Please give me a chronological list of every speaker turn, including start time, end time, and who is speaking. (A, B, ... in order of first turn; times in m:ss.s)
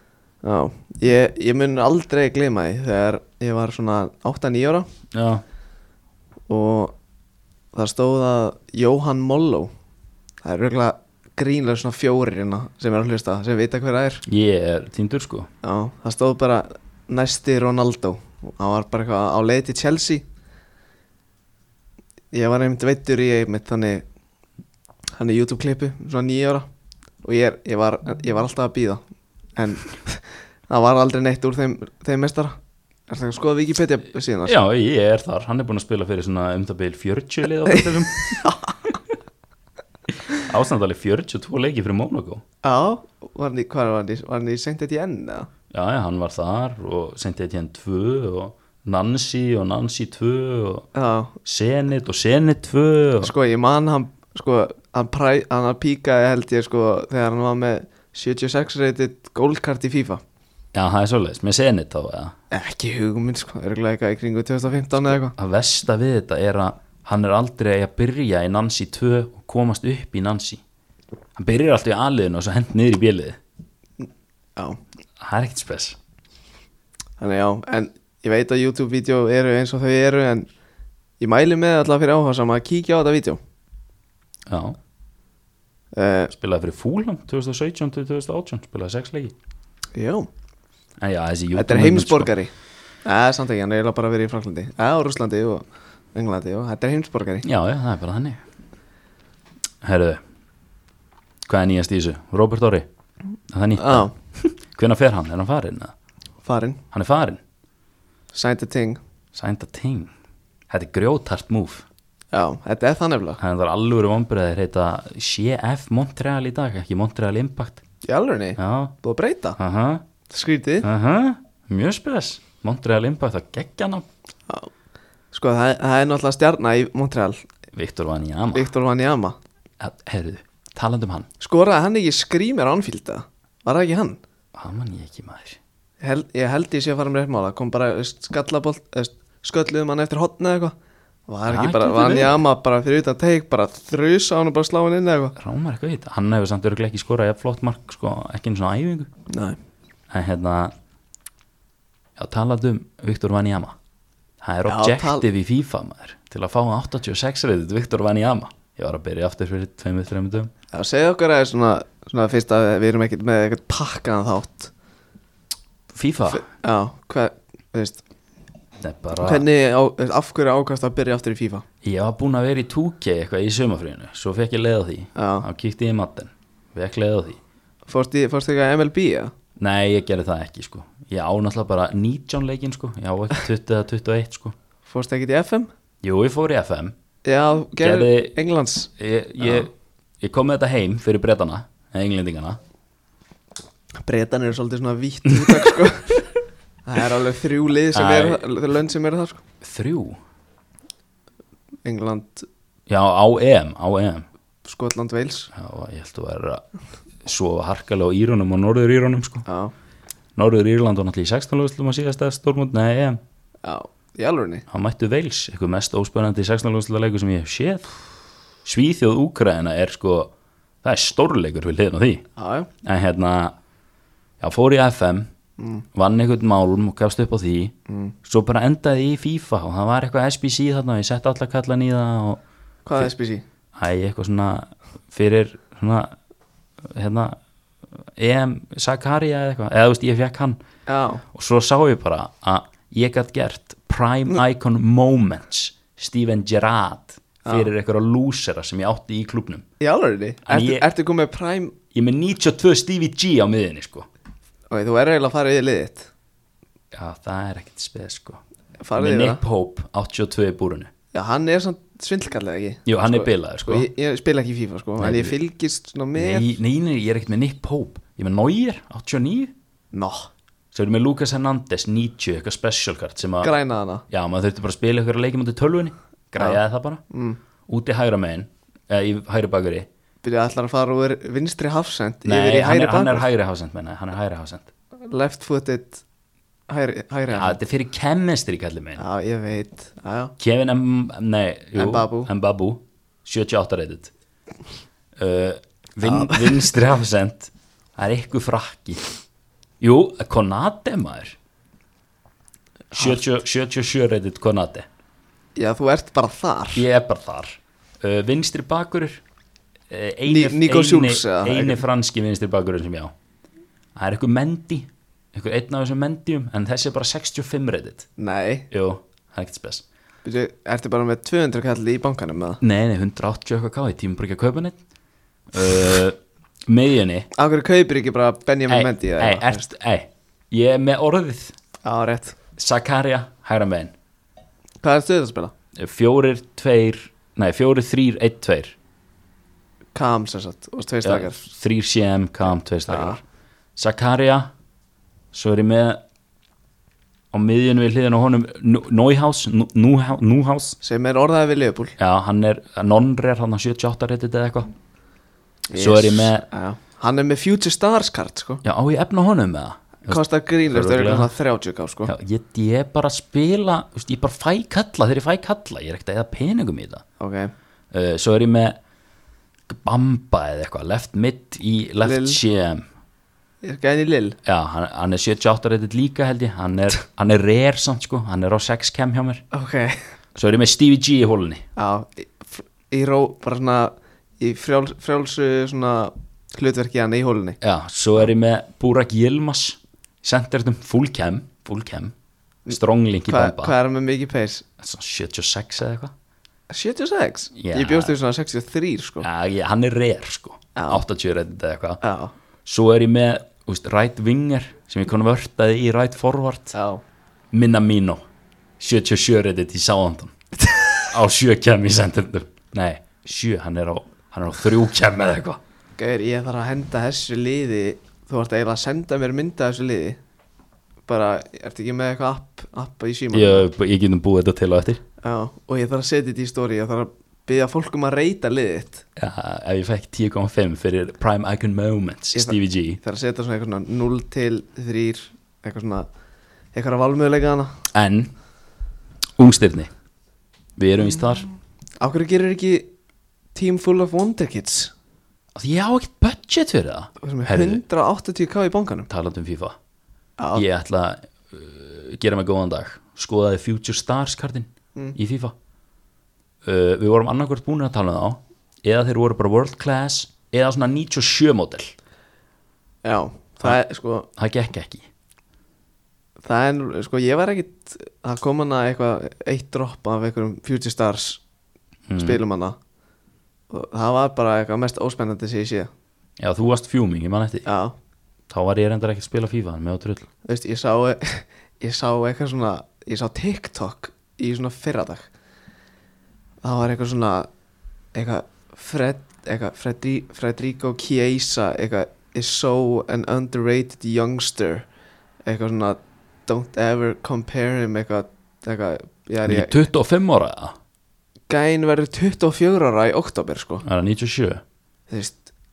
0:00.4-0:04.9 A
0:05.1-0:05.4 B
0:06.5-0:06.9 A
0:07.7-0:09.7 A
0:10.4-0:14.2 A
0:14.3-0:15.5 B
0:15.6-0:20.2 A
0:22.3-0:24.0 A
0:25.2-0:26.7 A
0:27.2-0:29.0 A
0:29.6-0:32.6 A
0:33.1-0:34.6 A
0:34.4-0:38.5 B
0:38.4-0:38.8 A
0:40.3-0:42.4 B
0:42.6-0:45.5 A
0:45.7-0:50.9 B
0:50.9-0:51.3 A
0:51.4-0:53.3 B
0:53.2-1:00.2 A
1:00.7-1:02.4 B
1:02.5-1:05.4 A
1:05.3-1:10.6 B
1:11.4-1:13.4 B
1:14.0-1:14.8 A
1:15.2-1:16.0 B
1:17.2-1:20.5 A
1:21.2-1:23.4 A
1:24.5-1:24.8 B
1:26.0-1:26.3 A
1:26.3-1:29.3 B
1:30.0-1:30.3 A
1:31.0-1:32.3 B
1:31.6-1:32.5 A
1:33.0-1:37.5 A
1:37.4-1:38.4 B
1:39.8-1:40.2 B
1:41.5-1:42.9 B
1:43.5-1:45.9 B
1:43.8-1:44.1 A
1:46.4-1:46.8 A
1:46.9-1:47.4 B
1:48.3-1:49.0 A
1:49.3-1:50.1 B
1:50.7-1:51.8 B
1:52.3-1:53.4 A
1:53.4-1:57.8 B
1:58.0-1:59.6 A
1:58.6-1:59.0 B
1:59.6-2:00.0 B
2:00.3-2:00.9 A
2:00.8-2:04.1 B
2:05.3-2:07.4 A
2:07.7-2:08.7 B
2:08.5-2:09.4 A
2:09.8-2:11.3 B
2:11.4-2:14.2 A
2:14.6-2:15.6 B
2:16.0-2:20.8 A
2:21.3-2:25.4 A
2:21.5-2:22.4 B
2:25.4-2:29.1 B
2:29.3-2:29.6 A
2:30.1-2:30.7 B
2:32.2-2:33.8 B
2:34.4-2:40.5 B
2:34.7-2:35.2 A
2:40.7-2:44.7 A
2:45.9-2:46.4 B
2:46.3-2:48.0 A
2:48.8-2:49.5 B
2:49.2-2:51.6 A
2:51.8-2:57.4 B
2:55.2-2:55.5 A
2:57.9-2:59.3 A
2:59.6-3:04.6 B
3:04.9-3:05.7 A
3:06.0-3:07.0 B
3:07.2-3:08.9 A
3:07.8-3:08.4 B
3:09.0-3:12.6 B
3:09.4-3:09.7 A
3:14.0-3:16.2 A
3:16.9-3:19.4 A
3:17.9-3:18.4 B
3:19.6-3:20.2 B
3:21.8-3:22.5 A
3:22.9-3:24.3 B
3:24.6-3:25.5 A
3:25.5-3:26.6 B
3:27.2-3:29.5 B
3:29.5-3:29.7 A
3:30.4-3:33.2 B
3:33.6-3:34.6 A
3:34.7-3:37.9 B
3:38.6-3:40.3 B
3:40.8-3:42.3 B
3:42.4-3:42.7 A
3:42.8-3:43.6 B
3:44.4-3:45.3 B
3:45.6-3:45.8 A
3:45.9-3:47.7 B
3:47.9-3:48.2 A
3:48.2-3:52.4 B
3:52.9-3:53.4 A
3:53.8-3:56.2 B
3:56.8-3:57.4 B
3:58.2-4:00.6 B
4:00.9-4:01.2 A
4:01.3-4:09.7 B
4:07.4-4:07.7 A
4:09.8-4:11.7 A
4:10.5-4:10.9 B
4:11.9-4:14.1 B
4:14.7-4:16.1 A
4:16.9-4:18.4 B
4:18.8-4:19.4 A
4:19.0-4:20.9 B
4:21.1-4:26.5 A
4:22.9-4:23.9 B
4:25.0-4:25.4 B
4:26.2-4:29.5 B
4:29.9-4:30.3 A
4:30.7-4:33.5 B
4:33.4-4:34.0 A
4:34.1-4:37.0 B
4:37.1-4:37.4 A
4:37.7-4:39.9 B
4:40.2-4:43.2 A
4:42.2-4:44.7 B
4:45.1-4:46.0 A
4:46.7-4:47.6 A
4:47.3-4:49.0 B
4:49.0-4:50.3 A
4:50.4-4:54.1 B
4:51.8-4:52.3 A
4:55.2-4:59.1 B
4:56.1-4:56.7 A
4:59.8-5:01.4 B
5:02.9-5:03.2 A
5:02.9-5:04.9 B
5:05.6-5:06.8 A
5:06.8-5:09.2 B
5:09.9-5:13.1 B
5:10.2-5:11.8 A
5:14.0-5:18.1 B
5:18.2-5:18.7 A
5:18.7-5:19.8 B
5:20.2-5:22.6 A
5:22.6-5:24.8 B
5:25.5-5:27.3 B
5:27.4-5:29.7 A
5:28.7-5:31.5 B
5:31.8-5:32.4 A
5:32.6-5:33.9 B
5:34.8-5:35.5 A
5:35.8-5:38.8 B
5:40.0-5:41.4 A
5:41.0-5:43.2 B
5:42.9-5:43.2 A
5:43.8-5:44.5 B
5:45.3-5:46.0 B
5:47.3-5:50.8 B
5:50.8-5:51.9 A
5:52.0-5:54.7 B
5:55.7-5:58.6 A
5:55.7-5:56.4 B
5:58.6-6:01.3 B
6:00.1-6:02.1 A
6:02.1-6:07.0 B
6:07.2-6:07.5 A
6:07.9-6:08.8 B
6:09.7-6:12.9 B
6:12.0-6:12.4 A
6:13.6-6:14.4 A
6:14.4-6:19.4 B
6:19.5-6:20.0 A
6:20.4-6:21.6 B
6:21.8-6:27.6 A
6:27.6-6:32.2 B
6:32.7-6:33.8 B
6:33.3-6:34.7 A
6:34.8-6:36.1 B
6:36.7-6:39.3 A
6:37.6-6:38.2 B
6:39.2-6:42.0 B
6:40.8-6:41.0 A
6:42.0-6:42.3 A
6:42.6-6:46.8 B
6:46.7-6:47.0 A
6:47.5-6:48.2 B
6:48.8-6:50.3 B
6:51.1-6:55.6 B
6:56.0-7:00.2 A
7:01.1-7:03.7 A
7:03.3-7:05.0 B
7:05.2-7:09.0 A
7:09.2-7:13.0 B
7:12.3-7:16.1 A
7:16.7-7:17.7 A
7:17.9-7:18.3 B
7:19.4-7:19.9 B
7:20.8-7:21.5 B
7:22.0-7:22.9 A
7:23.6-7:24.9 A
7:25.6-7:27.8 B
7:27.2-7:29.1 A
7:29.1-7:29.8 B
7:30.4-7:30.6 A
7:30.5-7:35.5 B
7:36.6-7:41.9 B
7:43.0-7:44.3 A
7:44.4-7:45.1 B
7:46.4-7:51.4 A
7:52.1-7:52.4 B
7:52.2-7:52.8 A
7:53.7-7:55.9 A
7:56.4-7:57.7 B
7:57.6-7:58.0 A
7:58.5-8:00.3 B
8:00.4-8:05.3 A
8:06.6-8:07.5 A
8:08.1-8:14.9 A
8:15.4-8:19.9 A
8:19.4-8:20.8 B
8:21.5-8:23.8 A
8:23.8-8:24.6 B
8:25.1-8:25.4 A